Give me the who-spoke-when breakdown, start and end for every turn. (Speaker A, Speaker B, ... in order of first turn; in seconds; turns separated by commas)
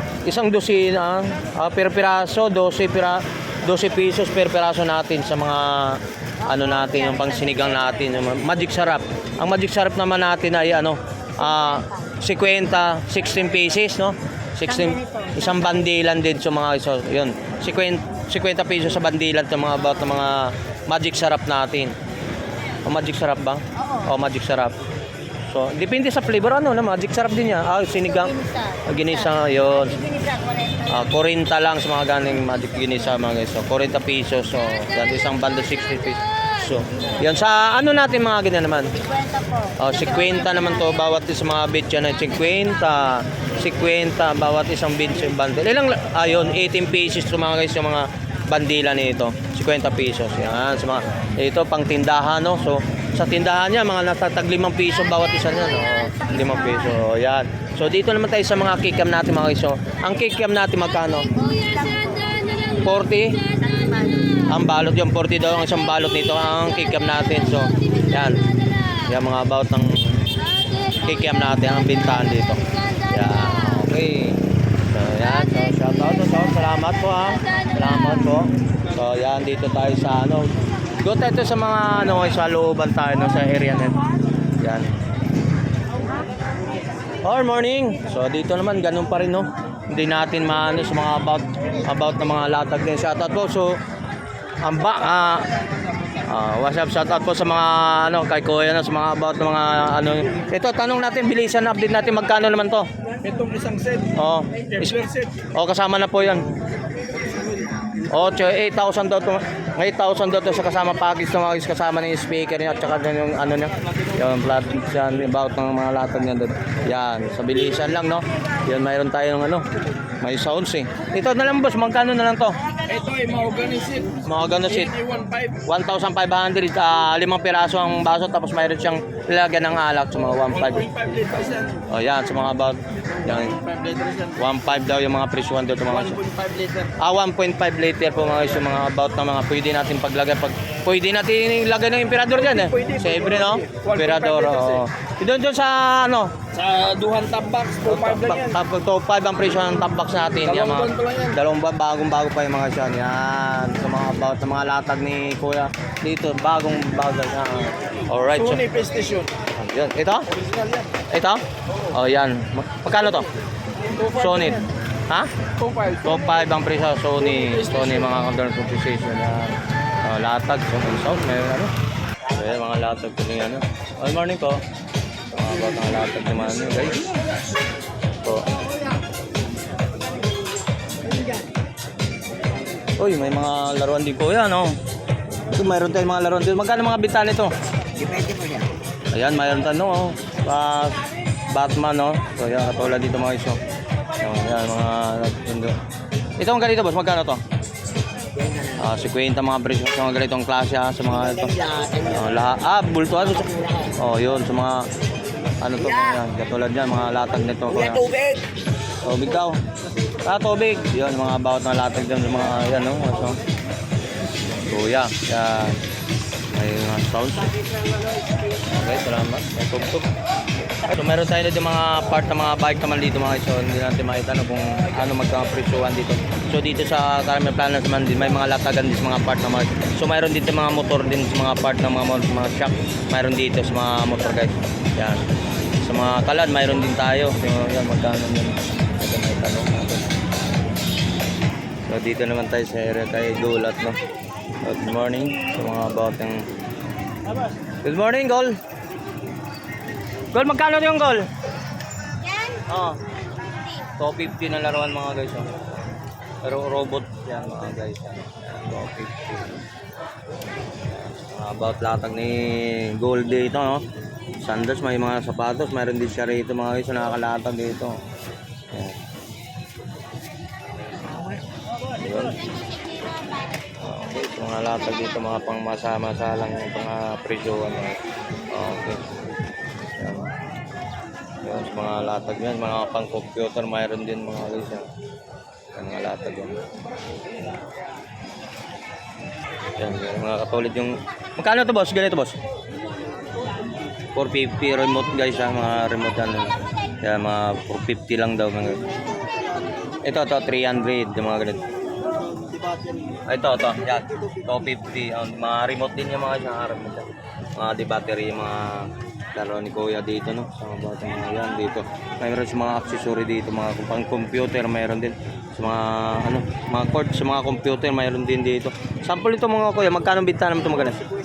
Speaker A: 0.2-21.9, Speaker B: 15.0-15.3, Speaker A: 22.8-24.8, Speaker A: 25.5-30.3, Speaker B: 28.4-28.8, Speaker B: 30.2-30.8, Speaker A: 30.8-61.7, Speaker B: 39.3-39.6, Speaker B: 61.6-62.6, Speaker A: 62.6-63.4, Speaker B: 63.6-64.3, Speaker A: 64.3-70.3, Speaker A: 70.8-84.0, Speaker A: 84.6-84.9, Speaker A: 87.2-93.8, Speaker A: 94.6-95.5, Speaker A: 96.1-102.8, Speaker C: 103.2-104.1, Speaker A: 104.1-106.5, Speaker C: 104.7-105.4, Speaker A: 108.1-119.6, Speaker A: 120.2-122.6, Speaker C: 122.8-125.6, Speaker A: 124.2-125.0, Speaker A: 125.6-130.9, Speaker C: 130.6-131.8, Speaker A: 131.8-133.6, Speaker C: 133.5-134.3, Speaker A: 134.3-136.2, Speaker C: 136.1-136.9, Speaker A: 136.9-146.4, Speaker C: 142.5-144.8, Speaker C: 146.5-148.6, Speaker A: 147.8-158.8, Speaker C: 150.4-151.3, Speaker C: 158.3-159.3, Speaker A: 159.5-160.3, Speaker C: 160.4-160.8, Speaker A: 161.1-163.3, Speaker C: 163.8-164.6, Speaker A: 164.0-165.3, Speaker C: 165.6-166.1, Speaker A: 166.0-171.7, Speaker C: 167.3-168.1, Speaker A: 172.3-174.6, Speaker A: 175.3-177.1, Speaker A: 178.2-178.5, Speaker A: 183.0-184.8, Speaker A: 185.5-187.5, Speaker A: 189.1-193.6, Speaker A: 194.1-195.8, Speaker A: 196.4-197.4, Speaker A: 198.6-204.9, Speaker A: 205.6-208.4, Speaker A: 209.0-209.6, Speaker A: 210.2-213.4, Speaker A: 214.4-215.8, Speaker A: 216.5-217.5, Speaker A: 218.6-220.1, Speaker A: 220.8-235.3, Speaker A: 235.8-240.1, Speaker A: 241.8-244.0, Speaker A: 244.6-246.5, Speaker A: 247.8-248.6, Speaker A: 250.3-251.3, Speaker A: 252.6-253.0, Speaker A: 253.9-255.6, Speaker A: 256.4-259.6, Speaker A: 260.9-263.8, Speaker A: 264.4-268.0, Speaker A: 268.7-269.0, Speaker A: 271.9-272.4, Speaker A: 273.8-278.0, Speaker A: 278.5-279.1, Speaker A: 279.8-280.3, Speaker A: 281.4-284.9, Speaker A: 285.7-286.6, Speaker A: 289.8-292.4, Speaker A: 294.1-298.9, Speaker A: 300.0-301.7, Speaker A: 303.2-321.1